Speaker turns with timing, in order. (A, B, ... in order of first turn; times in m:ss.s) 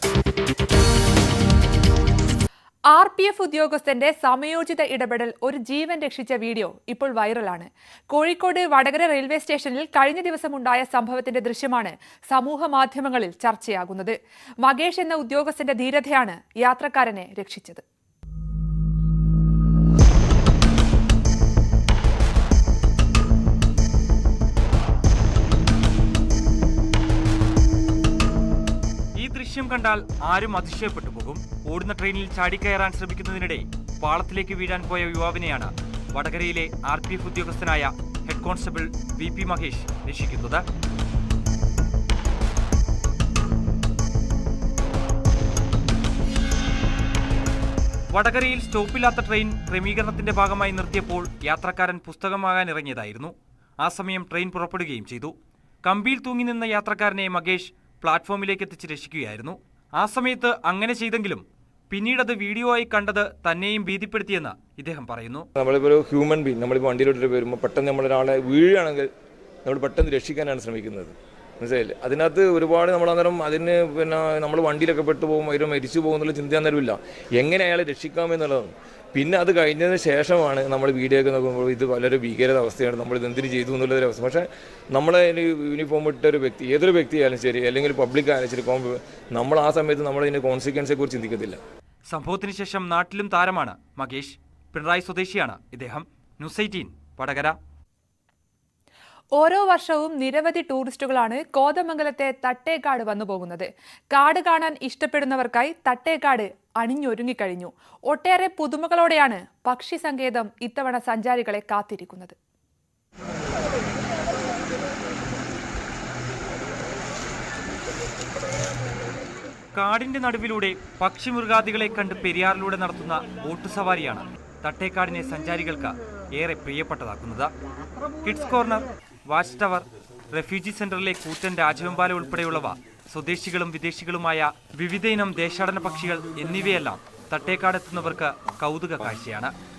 0:02.9-0:17.8 A
0:29.2-0:40.6 B
0:48.1-1:05.4 B
1:05.6-1:09.1 C
1:09.6-1:31.6 C
1:32.1-1:37.6 B
1:39.4-1:52.3 A
1:59.7-2:07.5 B
2:08.2-2:19.5 B